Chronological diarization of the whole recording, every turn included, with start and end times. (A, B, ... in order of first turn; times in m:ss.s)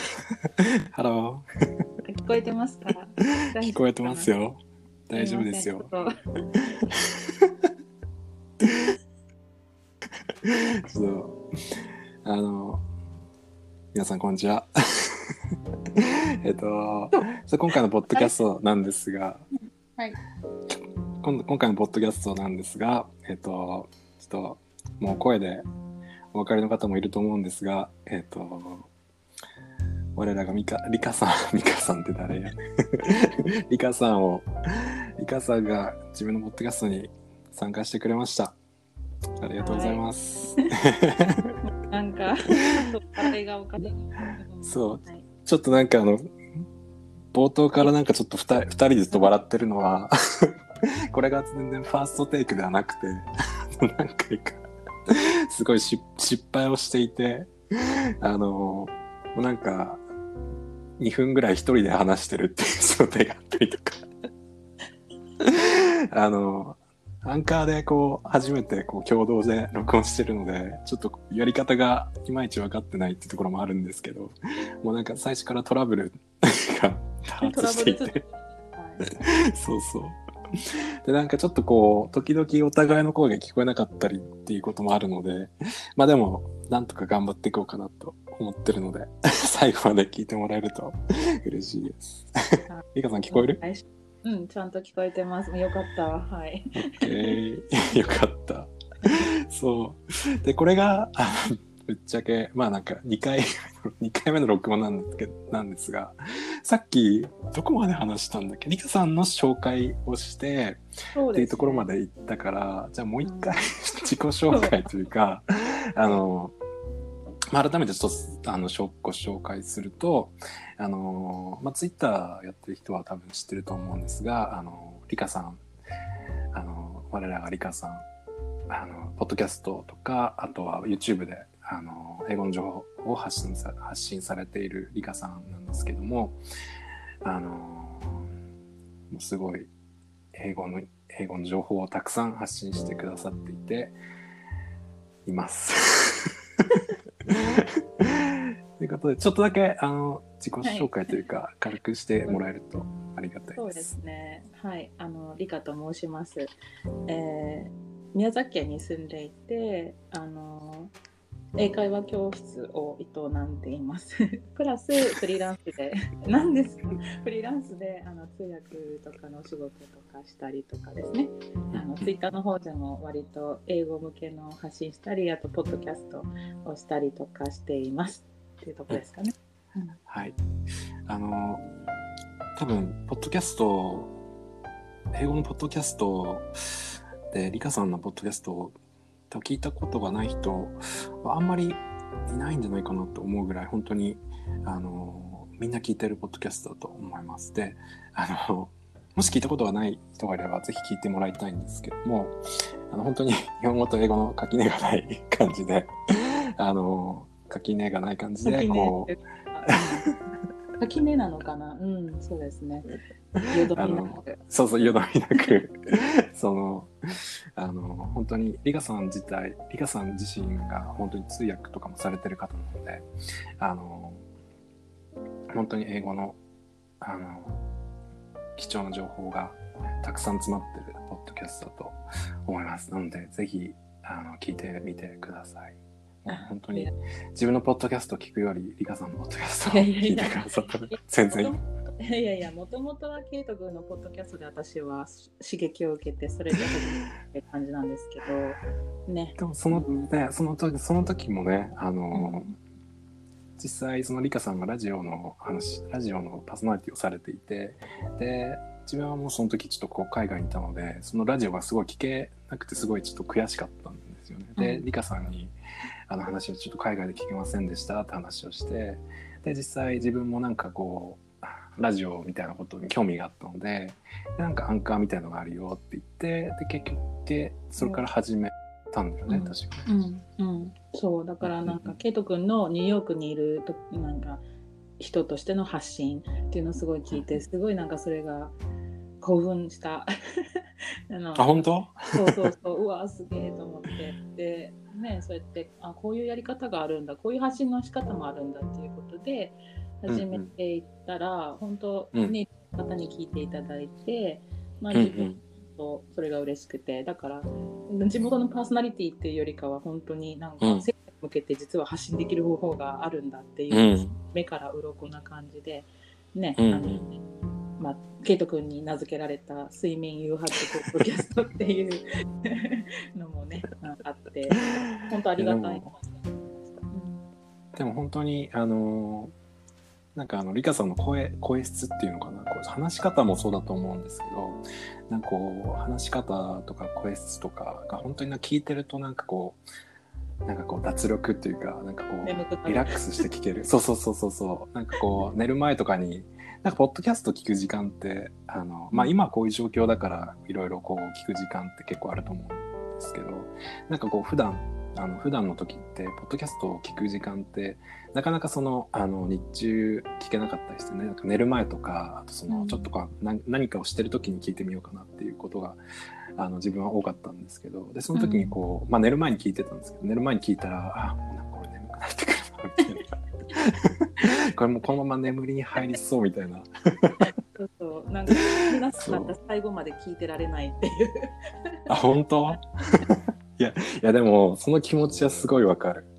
0:00.9-0:01.4 A
0:02.0-0:04.3 B
0:03.6-0:05.9 A
0:05.1-0:06.1 B
0:07.0-0:07.5 A
0:10.4-0:11.4 A
0:12.2-0:12.8 A
0:13.9-0:15.3 A
0:16.0-0:19.5 A
0:19.5-0:20.2 B
0:21.2-0:25.6 A
0:26.3-0:28.9 A
0:30.2-0:38.6 A
0:39.4-0:41.5 A
0:39.6-0:40.7 B
0:41.6-0:45.3 B
0:44.6-0:46.3 A
0:47.3-0:50.5 A
0:51.1-0:53.3 A
0:53.8-0:57.5 A
0:58.2-1:00.0 A
1:01.0-1:04.1 A
1:05.4-1:18.2 A
1:17.4-1:19.0 B
1:19.1-1:32.3 A
1:32.7-1:37.4 B
1:32.9-1:33.6 A
1:36.8-1:50.8 A
1:51.2-1:51.9 B
1:51.3-1:56.6 A
1:53.2-1:53.7 B
1:54.5-1:54.8 B
1:57.5-2:05.6 A
2:06.5-2:08.1 A
2:08.7-2:16.4 A
2:17.2-2:18.3 A
2:19.1-2:19.7 A
2:20.4-2:24.0 A
2:25.3-2:26.3 A
2:27.3-2:33.9 A
2:30.6-2:31.2 B
2:33.6-2:36.5 B
2:37.1-2:40.9 B
2:41.6-3:00.0 B
2:51.7-2:52.1 A
3:00.1-3:00.4 A
3:01.1-3:01.6 A
3:02.6-3:04.1 A
3:05.1-3:06.5 A
3:07.3-3:08.8 A
3:09.3-3:22.4 A
3:22.9-3:25.9 A
3:26.6-3:29.1 A
3:28.5-3:30.0 B
3:29.7-3:30.1 A
3:30.8-3:32.9 B
3:33.5-3:35.5 B
3:33.7-3:36.9 A
3:37.6-3:43.1 A
3:43.6-3:44.2 A
3:45.5-3:46.4 A
3:47.0-3:47.6 A
3:48.6-4:01.6 A
3:56.3-3:56.9 B
3:59.7-4:10.1 B
4:09.4-4:12.5 A
4:12.1-4:12.5 B
4:13.6-4:25.5 A
4:24.6-4:24.9 B
4:26.1-4:39.9 A
4:37.8-4:38.0 B
4:39.3-4:44.4 B
4:41.4-4:42.0 A
4:45.0-4:48.6 B
4:49.2-4:50.1 B
4:51.1-5:17.0 B
4:51.4-4:52.5 A
5:00.1-5:00.5 A
5:04.9-5:05.4 A
5:10.6-5:10.9 A
5:13.7-5:14.2 A
5:16.6-5:17.2 A
5:17.8-5:27.2 B
5:24.8-5:25.9 A
5:27.8-5:29.3 A
5:30.2-5:39.6 A
5:40.5-6:05.8 A
5:42.2-5:43.3 B
6:02.5-6:02.9 B
6:06.4-6:17.2 A
6:08.2-6:08.6 B
6:17.6-6:23.0 B
6:18.3-6:19.4 A
6:21.9-6:26.1 A